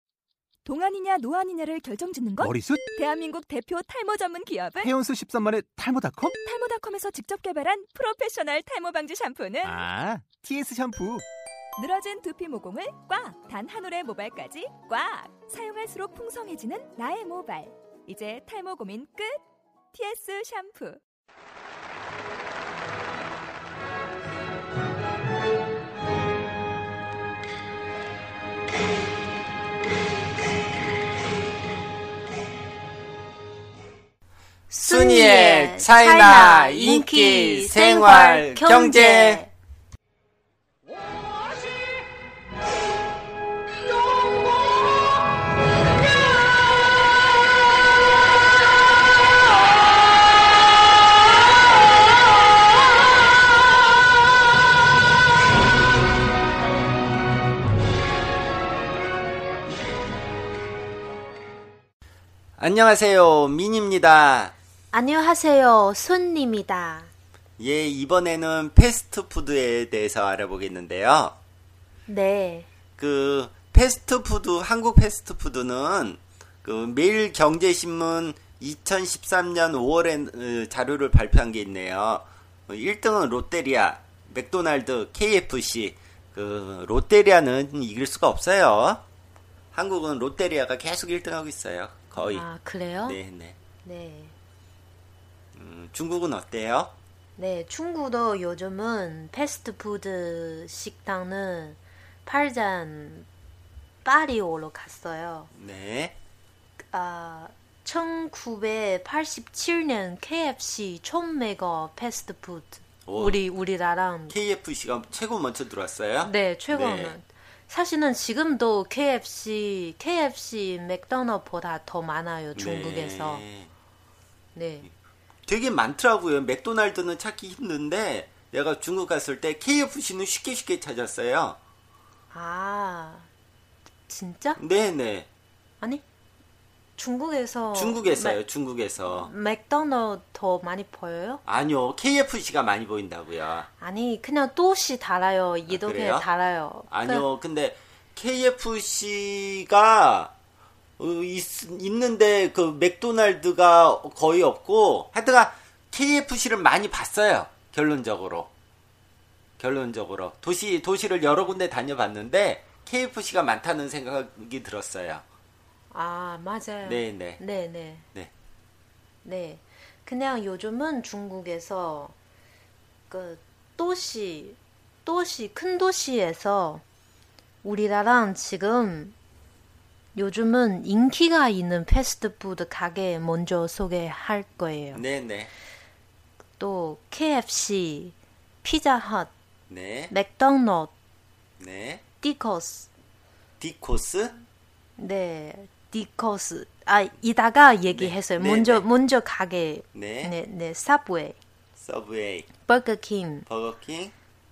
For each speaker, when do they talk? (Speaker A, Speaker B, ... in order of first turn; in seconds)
Speaker A: 0.7-4.9, 6.3-9.8, 11.8-19.4, 19.9-21.0
Speaker B: 2.4-2.8, 4.8-6.4, 9.6-11.3
Speaker C: 34.7-39.5, 64.9-67.1, 72.1-72.7, 92.2-93.2, 93.8-94.3, 97.4-103.3, 104.0-105.5, 106.8-114.4, 116.2-123.4, 124.5-124.9, 132.3-133.3, 134.1-134.6, 137.0-138.4, 139.0-141.4, 143.8-147.2, 165.9-168.1, 169.2-172.1, 173.1-176.8, 177.6-179.2, 180.2-185.0, 186.6-189.3, 190.1-190.9, 192.2-192.9, 195.0-201.4, 202.6-203.5
Speaker D: 34.8-39.4, 62.6-64.5, 67.6-71.4, 73.0-89.0, 89.7-92.5, 93.0-93.6, 95.5-96.9, 105.5-106.2, 113.0-113.4, 114.3-117.2, 122.6-123.7, 125.5-131.6, 134.6-135.3, 137.7-139.3, 141.4-143.7, 145.7-146.3, 146.9-150.3, 151.0-158.5, 159.6-165.2, 166.8-167.4, 184.9-185.5, 189.7-190.1, 191.6-192.0, 193.6-194.4, 197.9-198.8, 199.9-200.3, 201.8-202.5, 203.5-204.1